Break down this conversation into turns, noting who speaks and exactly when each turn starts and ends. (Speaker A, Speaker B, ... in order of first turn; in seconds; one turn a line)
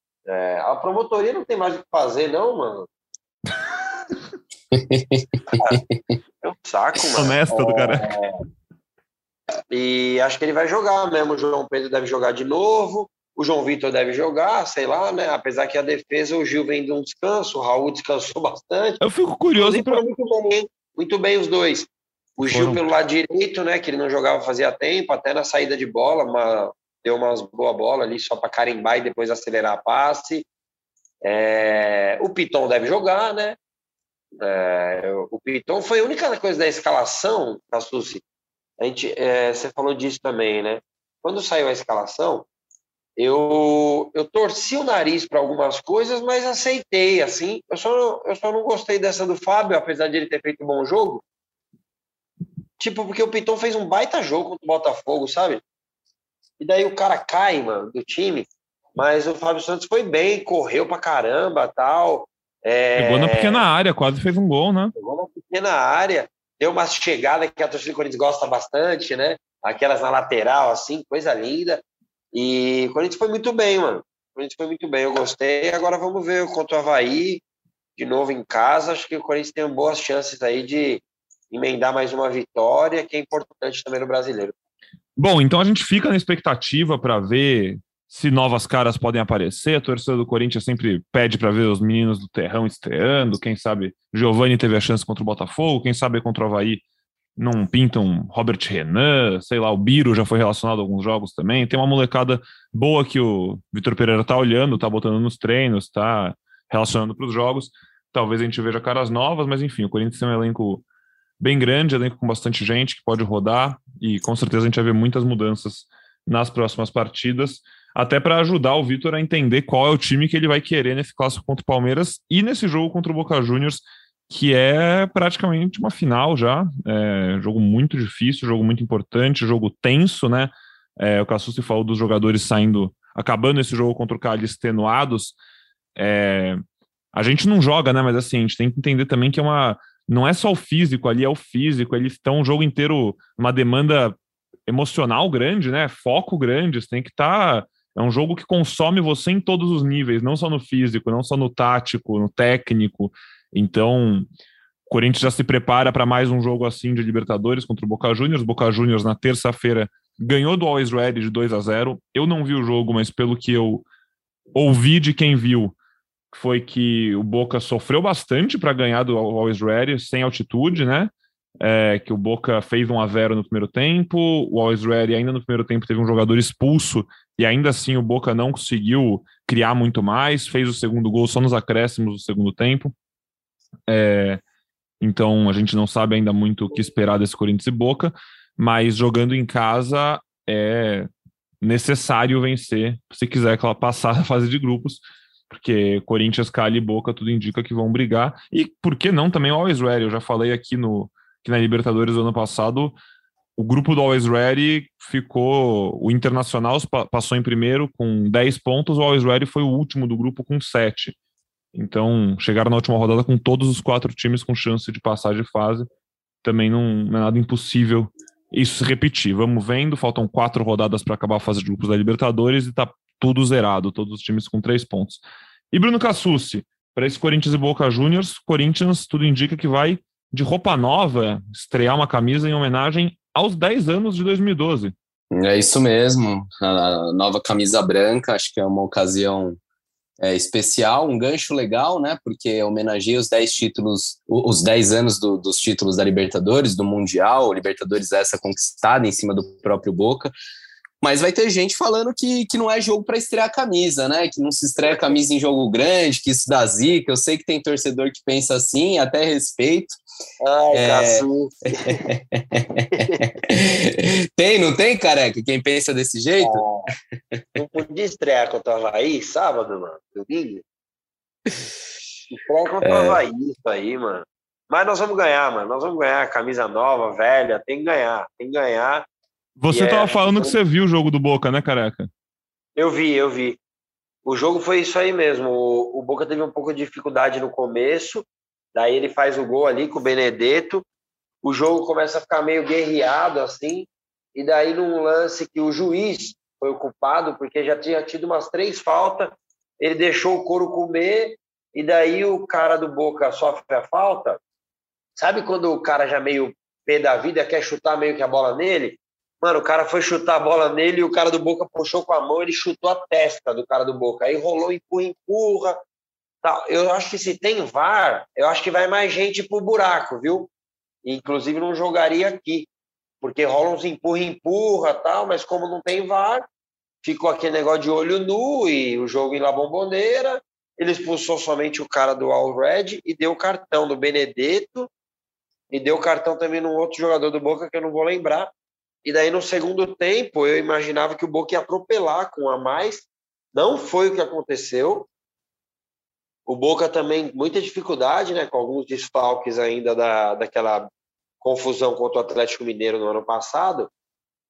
Speaker A: 0.3-2.9
Speaker B: 4.7-6.2
Speaker A: 5.5-5.8
Speaker A: 6.4-8.4
Speaker C: 7.2-8.2
Speaker A: 9.7-19.0
Speaker C: 19.0-20.1
Speaker A: 19.6-30.5
Speaker C: 22.4-22.8
Speaker A: 31.2-33.6
Speaker A: 34.4-38.2
Speaker A: 38.8-42.5
Speaker A: 43.2-51.2
Speaker A: 52.8-55.6
Speaker A: 56.6-63.7
Speaker C: 63.0-64.9
Speaker A: 65.0-71.8
Speaker A: 72.3-77.4
Speaker A: 78.0-84.5
Speaker C: 85.2-96.8
Speaker C: 97.4-110.8
Speaker C: 111.4-135.3
Speaker C: 136.0-136.6
Speaker C: 137.1-154.3
Speaker C: 154.9-163.9
Speaker C: 164.6-165.8
Speaker C: 166.3-182.9
Speaker C: 183.9-184.4
Speaker C: 185.0-191.1
Speaker C: 191.6-203.0
Speaker C: 203.6-211.2
Speaker C: 211.7-215.9
Speaker C: 216.4-225.2
Speaker C: 225.7-234.9
Speaker B: 235.3-239.6
Speaker B: 240.2-250.3
Speaker B: 251.0-260.0
Speaker A: 254.8-255.2
Speaker A: 260.4-262.0
Speaker B: 260.7-261.3
Speaker B: 261.9-266.6
Speaker A: 262.9-263.2
Speaker A: 266.4-266.9
Speaker A: 267.6-270.6
Speaker A: 272.3-279.1
Speaker B: 272.9-273.2
Speaker C: 279.6-282.1
Speaker A: 279.7-280.6
Speaker A: 282.8-283.6
Speaker A: 284.2-290.8
Speaker A: 291.4-304.4
Speaker A: 305.2-315.8
Speaker A: 316.4-320.5
Speaker A: 321.0-322.7
Speaker A: 323.2-326.5
Speaker A: 327.0-334.9
Speaker A: 335.7-338.5
Speaker A: 339.0-345.1
Speaker A: 346.5-350.9
Speaker A: 351.4-353.9